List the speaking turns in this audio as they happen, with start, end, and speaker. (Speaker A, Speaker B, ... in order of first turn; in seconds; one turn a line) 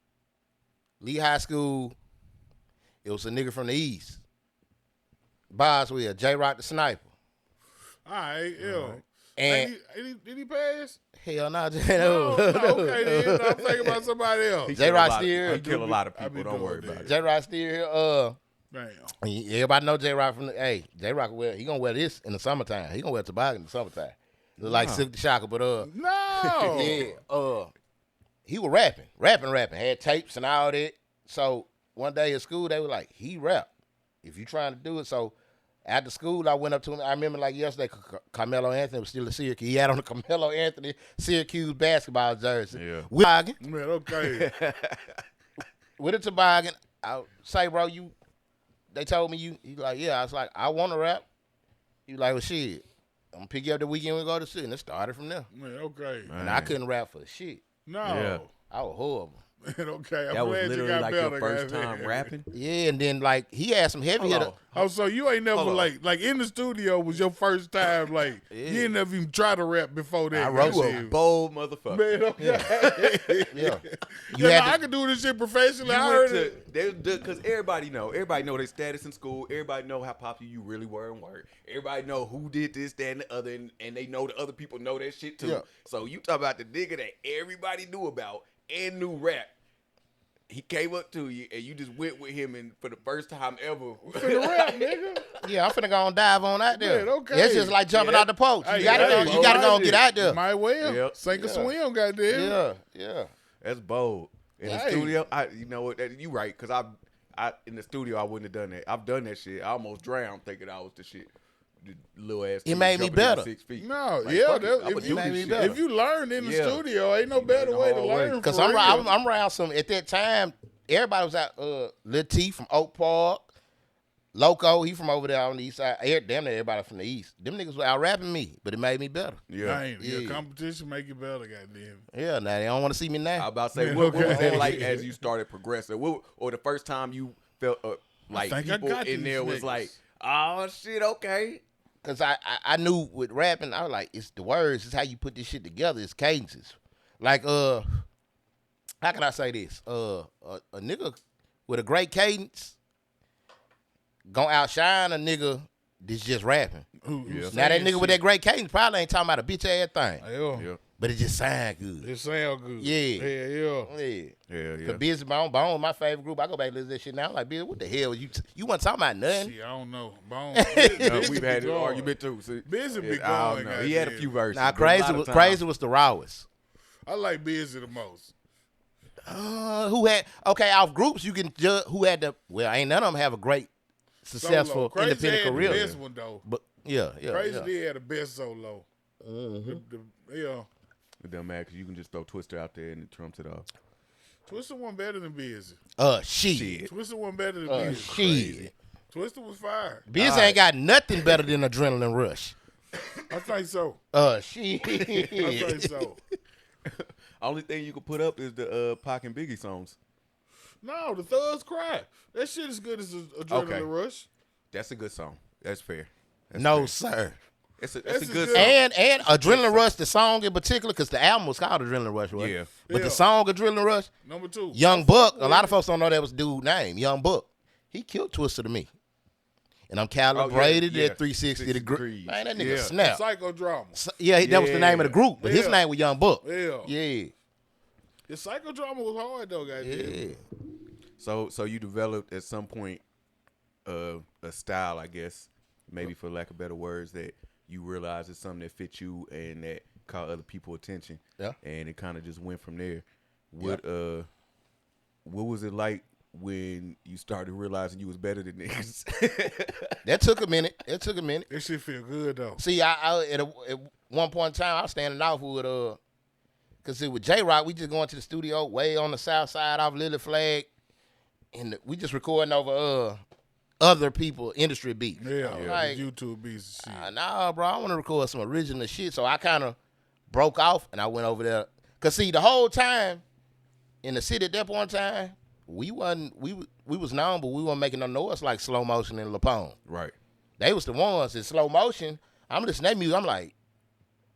Speaker A: 1.0-1.9
Speaker A: 3.0-4.2
Speaker A: 5.5-7.1
Speaker B: 8.0-11.0
Speaker C: 8.6-9.0
Speaker A: 9.4-9.7
Speaker A: 11.2-14.0
Speaker B: 12.0-14.8
Speaker C: 14.6-17.1
Speaker A: 14.7-15.7
Speaker B: 15.5-17.1
Speaker A: 17.0-18.4
Speaker B: 18.7-19.1
Speaker A: 19.2-25.9
Speaker C: 24.6-25.1
Speaker B: 25.8-27.1
Speaker C: 26.4-27.0
Speaker A: 26.6-27.7
Speaker A: 28.4-33.7
Speaker A: 34.2-43.6
Speaker C: 42.7-43.1
Speaker B: 43.6-44.5
Speaker C: 44.1-45.0
Speaker A: 46.0-48.1
Speaker A: 48.9-51.2
Speaker A: 52.1-55.5
Speaker B: 55.5-56.3
Speaker C: 56.3-56.8
Speaker A: 56.4-57.6
Speaker B: 57.9-58.5
Speaker C: 58.0-58.4
Speaker A: 58.7-59.4
Speaker B: 59.6-62.3
Speaker C: 60.3-62.5
Speaker A: 62.5-64.6
Speaker B: 64.2-71.1
Speaker C: 65.5-65.9
Speaker A: 68.5-68.9
Speaker A: 70.3-71.0
Speaker C: 70.5-73.5
Speaker B: 71.9-76.6
Speaker A: 72.4-72.7
Speaker A: 73.5-74.8
Speaker C: 75.8-89.5
Speaker A: 85.4-85.7
Speaker C: 90.5-95.4
Speaker B: 94.1-95.2
Speaker A: 95.4-100.4
Speaker B: 96.7-97.9
Speaker C: 97.9-100.0
Speaker B: 98.6-102.6
Speaker C: 100.8-101.2
Speaker A: 101.3-101.7
Speaker A: 102.3-103.3
Speaker C: 103.6-111.3
Speaker B: 104.6-105.2
Speaker C: 111.8-115.8
Speaker A: 112.6-113.5
Speaker B: 113.8-119.1
Speaker A: 115.0-115.8
Speaker C: 116.4-118.4
Speaker A: 118.4-123.5
Speaker A: 124.3-129.4
Speaker C: 129.5-129.8
Speaker B: 129.6-132.0
Speaker A: 130.0-130.4
Speaker A: 132.1-133.5
Speaker C: 133.3-141.6
Speaker B: 133.7-135.1
Speaker A: 134.2-134.8
Speaker B: 138.3-139.9
Speaker A: 142.0-148.0
Speaker A: 149.0-152.8
Speaker A: 154.3-156.9
Speaker B: 157.0-158.2
Speaker C: 157.2-157.6
Speaker A: 157.5-160.2
Speaker B: 160.2-160.7
Speaker A: 161.0-162.1
Speaker B: 162.0-163.9
Speaker A: 162.8-163.3
Speaker A: 163.8-169.5
Speaker C: 164.5-165.0
Speaker B: 169.3-172.1
Speaker A: 170.5-171.4
Speaker C: 170.8-175.6
Speaker B: 172.6-174.4
Speaker A: 174.5-176.5
Speaker B: 177.1-178.3
Speaker A: 179.2-183.7
Speaker A: 184.2-187.7
Speaker B: 184.3-186.4
Speaker C: 185.5-185.9
Speaker B: 187.3-188.8
Speaker A: 189.2-189.8
Speaker B: 189.6-190.7
Speaker C: 191.2-193.7
Speaker B: 194.4-195.8
Speaker A: 196.0-196.8
Speaker C: 196.5-196.9
Speaker B: 196.8-198.3
Speaker A: 197.7-198.7
Speaker C: 197.7-198.7
Speaker B: 199.1-200.2
Speaker A: 200.1-202.5
Speaker C: 200.1-200.6
Speaker B: 203.3-204.0
Speaker A: 204.1-205.9
Speaker C: 204.9-205.5
Speaker B: 205.3-206.2
Speaker C: 206.9-210.0
Speaker B: 210.8-214.3
Speaker C: 213.5-213.9
Speaker C: 214.7-216.9
Speaker A: 216.6-217.4
Speaker C: 217.8-219.8
Speaker B: 218.0-218.8
Speaker A: 218.5-224.1
Speaker C: 222.3-222.8
Speaker B: 222.8-223.2
Speaker B: 224.2-225.8
Speaker A: 224.7-228.9
Speaker A: 229.9-233.2
Speaker C: 230.3-233.0
Speaker B: 232.9-234.0
Speaker A: 233.9-237.3
Speaker C: 234.4-235.2
Speaker B: 235.4-235.8
Speaker B: 236.4-236.9
Speaker B: 238.3-240.3
Speaker A: 239.8-240.4
Speaker C: 241.2-243.0
Speaker C: 243.8-254.3
Speaker C: 255.2-260.0
Speaker A: 260.0-261.5
Speaker B: 261.5-262.6
Speaker A: 262.6-266.0
Speaker A: 266.8-270.7
Speaker A: 271.5-273.2
Speaker A: 273.8-276.1
Speaker B: 275.2-277.1
Speaker C: 275.5-275.8
Speaker A: 276.8-279.8
Speaker A: 280.3-283.2
Speaker A: 284.0-289.8
Speaker C: 289.9-290.1
Speaker A: 290.6-293.5